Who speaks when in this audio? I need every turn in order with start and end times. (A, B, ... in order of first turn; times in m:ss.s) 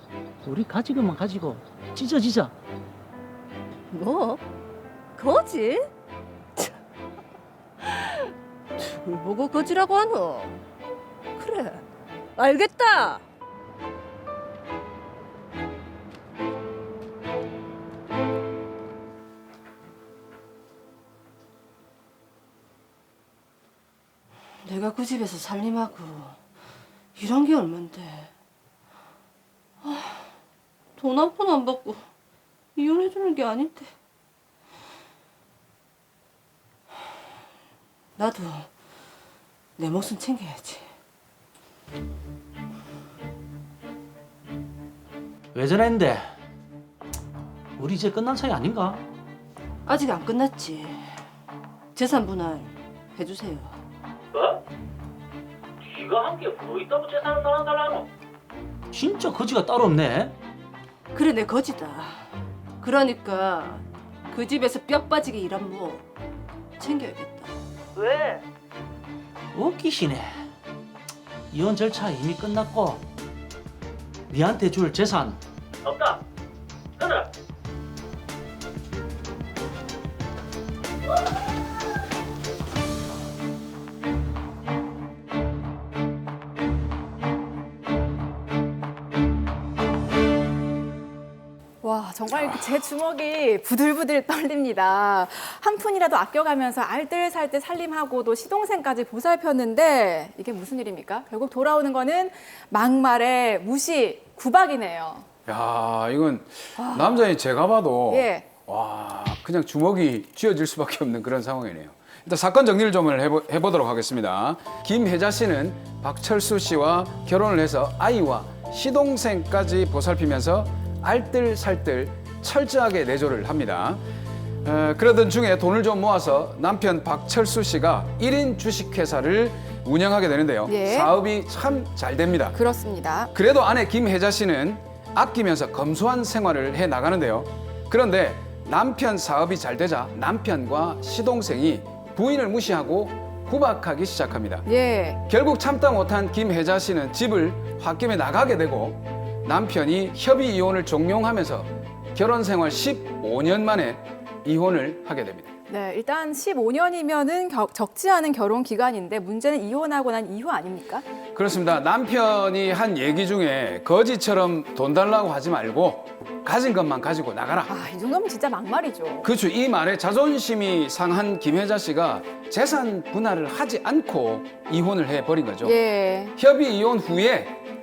0:00.4-0:02.5 A
0:03.9-0:04.4 B
0:05.2-0:05.9 B
0:07.8-0:10.6 B
0:11.4-0:13.2 B
0:24.6-0:26.4 B
0:27.2-0:28.3 B
0:29.8-0:30.3 B
0:31.0-0:32.0 B
0:32.8-0:33.9 B
0:38.2-0:38.7 B
0:39.8-0:40.9 B
0:45.5-0:46.3 A
0:47.8-0:49.0 A
0:49.8-0:51.2 B
0:51.9-0:53.8 B
0:58.9-1:00.3 A
1:01.1-1:06.0 B
1:06.8-1:07.6 B
1:09.5-1:10.5 A
1:11.5-1:13.0 A
1:14.3-1:15.4 A
1:31.8-1:45.2 C
1:45.4-2:04.0 D
1:46.8-1:47.3 C
1:48.1-1:48.5 C
2:04.6-2:12.6 D
2:10.7-2:11.2 C
2:12.5-2:13.3 C
2:13.3-2:24.7 D
2:24.6-2:25.2 C
2:25.2-2:35.5 D
2:35.7-2:41.0 C
2:41.3-2:47.8 D
2:47.6-2:49.3 C
2:49.2-2:55.8 D
2:55.6-2:56.3 C
2:56.4-2:57.6 D